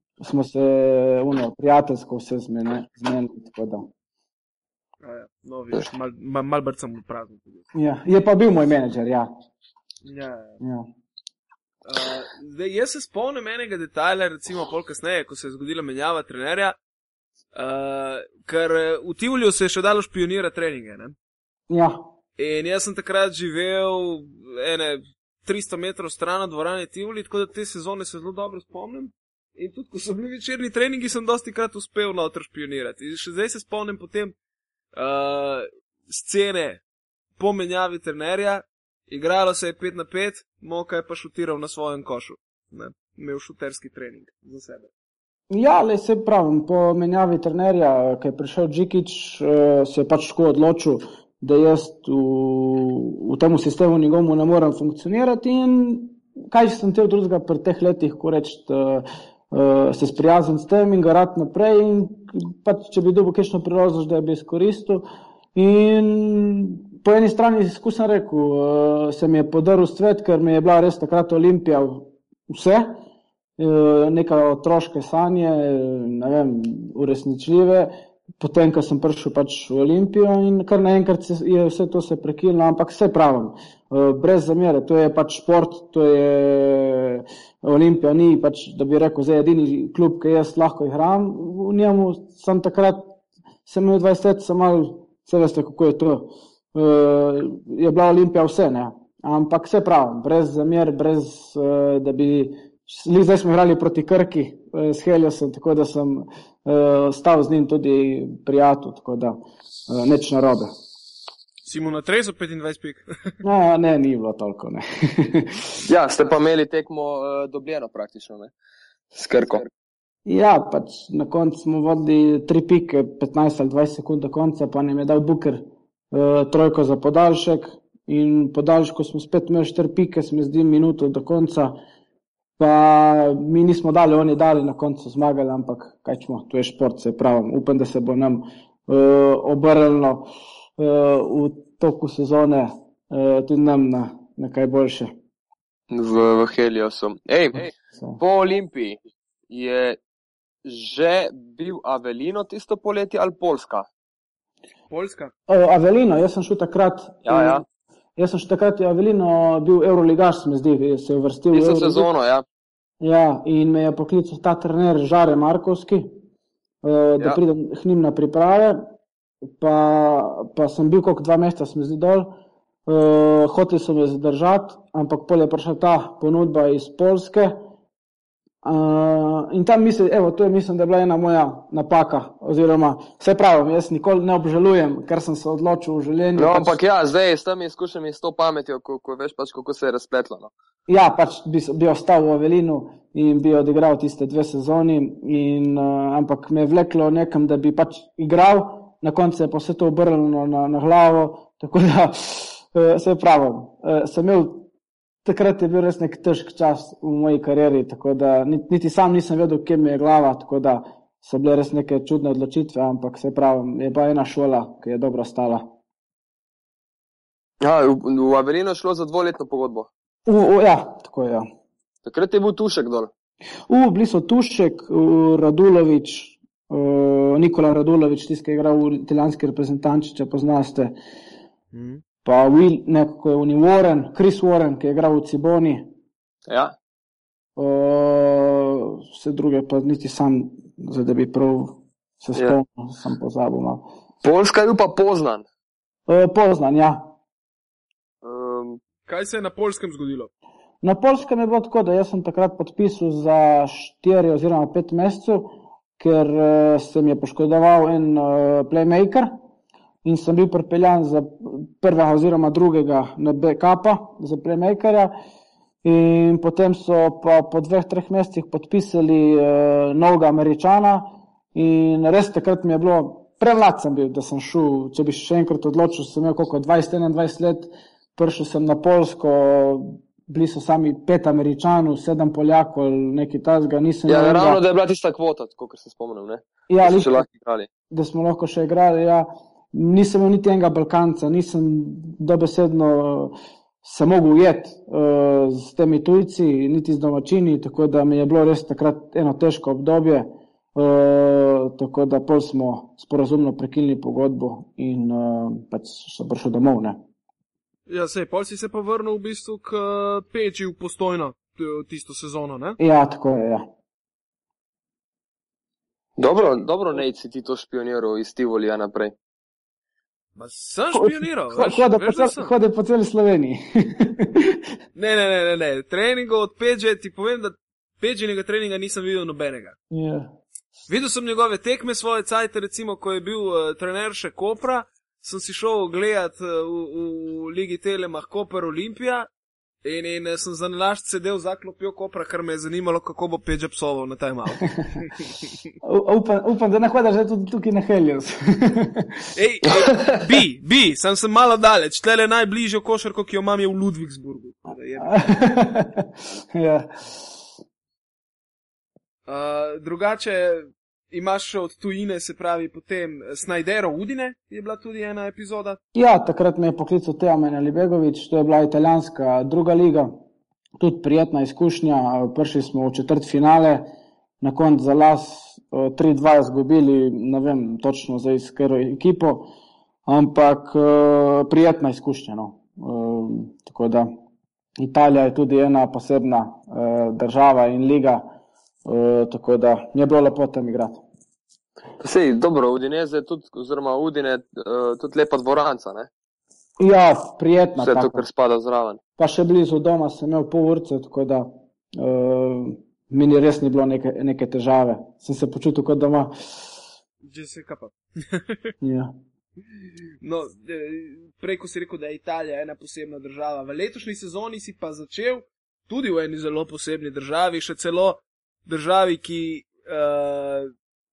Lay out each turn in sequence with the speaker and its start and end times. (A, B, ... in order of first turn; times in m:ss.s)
0:00.2-0:03.9 A
0:05.0-0:07.7 B
0:07.7-0:09.3 A
0:10.0-0:10.6 B
0:10.6-0:10.9 A
0:11.9-0:16.8 B
0:17.5-0:21.2 B
0:21.7-0:22.0 A
0:22.4-0:34.4 B
0:35.0-0:36.8 B
0:37.4-0:44.9 B
0:45.5-1:05.0 A
1:05.6-1:13.0 A
1:13.6-1:49.4 A
1:49.9-1:50.7 A
1:51.6-1:53.4 B
1:53.4-1:55.7 A
1:55.9-1:58.5 C
1:59.1-1:59.7 C
2:00.2-2:11.7 A
2:12.6-2:25.1 A
2:25.9-2:29.0 C
2:29.5-2:30.0 C
2:30.6-2:33.9 C
2:34.9-2:35.3 B
2:35.5-2:37.6 A
2:37.2-2:37.6 C
2:38.2-2:42.1 A
2:41.5-2:42.4 C
2:43.0-2:46.1 A
2:46.8-2:48.8 A
2:49.6-2:52.3 A
2:52.9-2:57.6 A
2:58.6-3:06.8 A
3:06.4-3:10.5 C
3:10.9-3:24.7 A
3:25.2-3:35.6 A
3:37.6-3:39.9 C
3:40.2-3:41.4 A
3:42.0-3:43.1 C
3:43.7-3:51.0 A
3:51.7-3:52.0 B
3:52.2-3:55.9 A
3:56.5-3:56.7 C
3:57.6-4:03.8 A
4:04.2-4:05.4 C
4:06.1-4:07.1 A
4:08.2-4:08.8 C
4:09.1-4:10.3 B
4:10.8-4:19.3 A
4:20.0-4:25.1 A
4:25.8-4:44.6 A
4:44.1-4:47.7 C
4:46.7-4:47.2 A
4:47.9-5:07.0 A
5:07.9-5:12.8 B
5:12.8-5:13.7 A
5:16.2-5:19.1 C
5:20.4-5:22.5 B
5:20.9-5:24.6 A
5:25.0-5:29.8 B
5:29.9-5:30.3 A
5:30.9-5:39.3 B
5:39.8-5:45.2 B
5:45.8-5:49.2 A
5:49.4-5:55.2 B
5:55.0-5:57.4 A
5:59.3-6:05.8 B
6:05.9-6:10.1 A
6:10.8-6:13.9 A
6:14.4-6:19.5 A
6:20.1-6:24.1 A
6:24.8-6:28.3 A
6:28.8-6:31.0 A
6:32.0-6:36.1 C
6:36.8-6:38.2 A
6:37.8-6:39.0 C
6:39.2-6:46.3 A
6:47.2-6:48.7 B
6:48.8-6:49.1 A
6:50.2-7:00.7 B